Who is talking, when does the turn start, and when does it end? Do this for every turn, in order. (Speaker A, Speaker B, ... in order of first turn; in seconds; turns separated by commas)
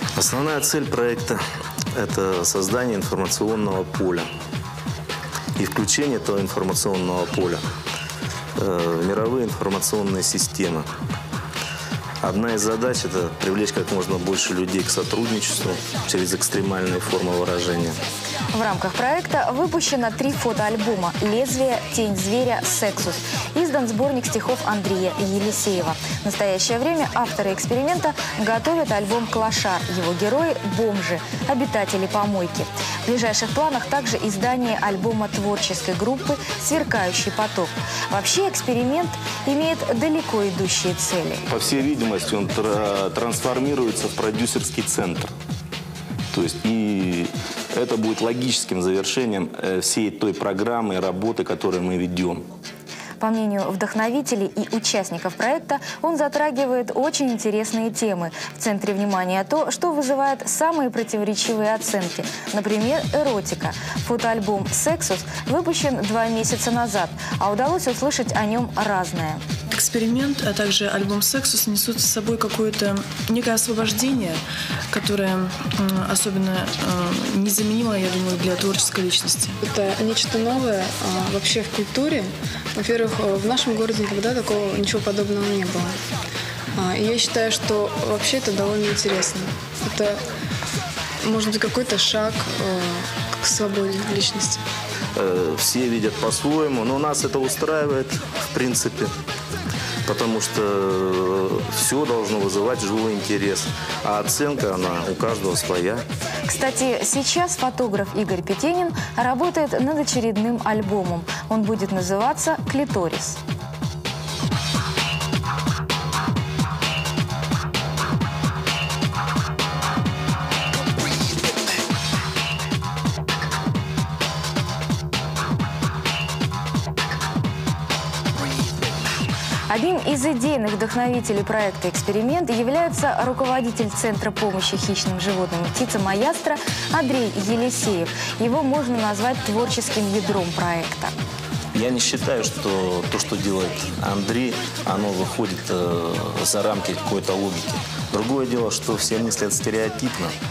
Speaker A: 0.1-4.3, Speaker A: 5.6-7.6, Speaker A: 8.6-10.9, Speaker A: 12.2-18.0, Speaker B: 18.5-41.5, Speaker A: 41.5-45.3, Speaker A: 46.3-52.5, Speaker B: 53.2-69.4, Speaker C: 69.7-79.6, Speaker D: 79.6-86.0, Speaker D: 86.8-90.2, Speaker D: 91.2-94.6, Speaker A: 95.2-99.1, Speaker A: 100.0-106.0, Speaker B: 106.5-113.4, Speaker B: 129.7-141.1, Speaker A: 141.7-150.4